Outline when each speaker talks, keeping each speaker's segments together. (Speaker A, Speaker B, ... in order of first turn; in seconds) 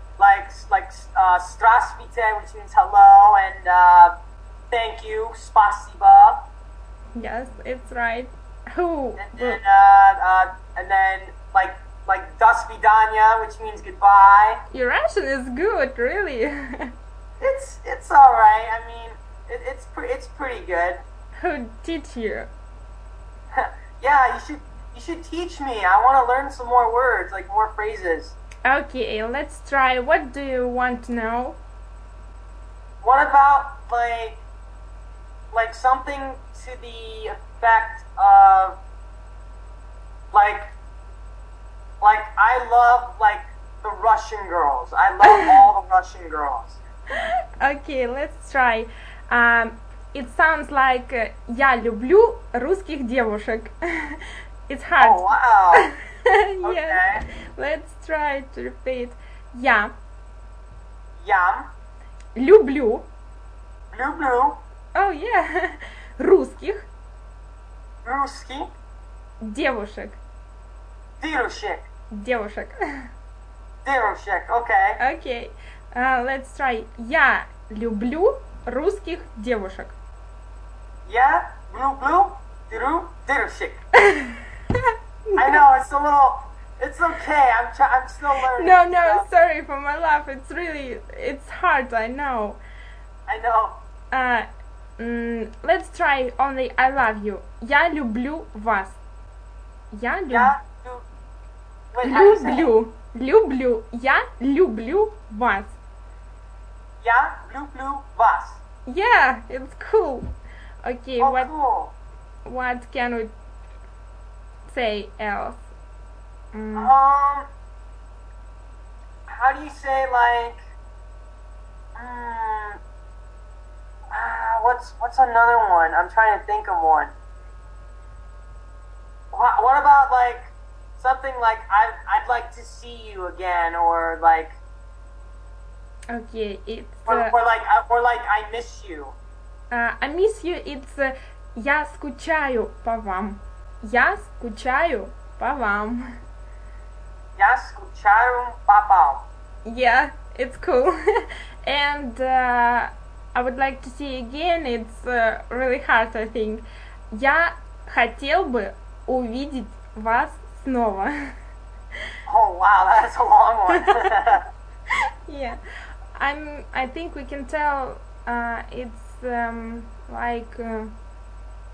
Speaker A: 0.2-4.1, 4.7-6.5, 9.2-14.6, 17.4-21.0, 23.5-28.4, 33.0-34.4, 35.5-38.8, 40.3-40.7, 42.0-46.8, 55.0-55.9, 56.6-57.2, 61.2-61.7, 63.9-64.6, 68.0-68.7, 71.2-71.9, 73.8-75.0, 81.0-83.8, 85.4-89.2, 93.3-93.8, 100.3-101.0, 101.9-102.7, 107.0-108.6, 111.2-111.9, 116.7-117.5, 119.3-120.6, 122.0-122.8, 124.1-127.1, 129.3-134.6, 137.1-139.2, 147.4-149.3, 162.2-164.4
Speaker B: 7.1-9.6, 14.7-16.9, 21.4-22.5, 28.6-31.6, 45.2-45.5, 47.6-55.2, 55.8-59.9, 62.4-63.1, 64.9-66.9, 69.4-70.2, 72.1-72.8, 75.0-79.9, 84.1-84.4, 85.3-85.6, 88.5-92.6, 94.1-99.0, 99.9-100.5, 102.0-105.8, 108.8-110.3, 110.8-111.5, 112.4-113.3, 114.7-115.6, 116.5-116.9, 136.1-137.3, 139.7-146.1, 149.6-150.9, 151.6-161.3, 163.7-164.0, 165.2-165.6, 166.2-170.9